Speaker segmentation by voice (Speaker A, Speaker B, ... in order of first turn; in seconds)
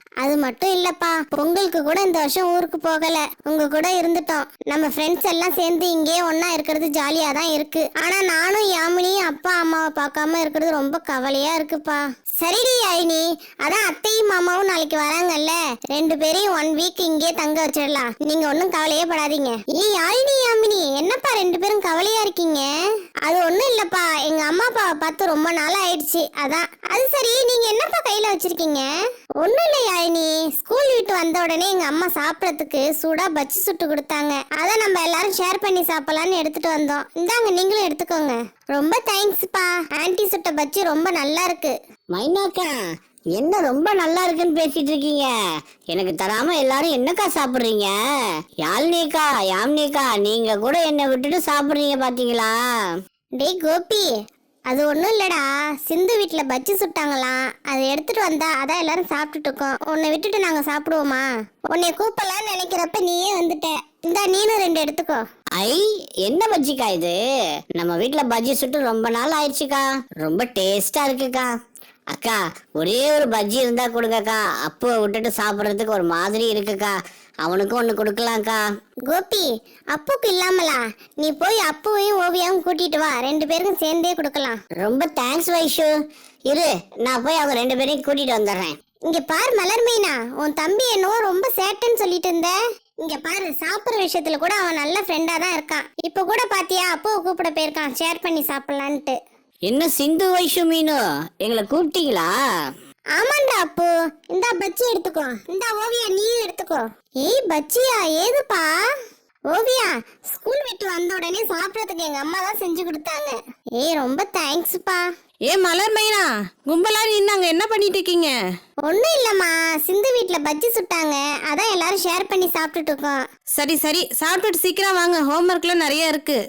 Speaker A: 0.2-22.6, 23.3-28.9, 29.4-41.8, 53.4-54.1, 54.7-65.2, 79.1-84.6, 89.1-99.2, 103.2-108.7, 109.5-115.0, 118.9-123.2
Speaker B: 42.1-42.7, 43.4-45.3, 45.9-47.9, 48.6-52.5, 65.6-67.2, 67.8-71.5, 72.1-78.6, 84.8-85.9, 86.5-88.8, 99.7-102.3
Speaker C: 115.5-118.3, 123.5-126.4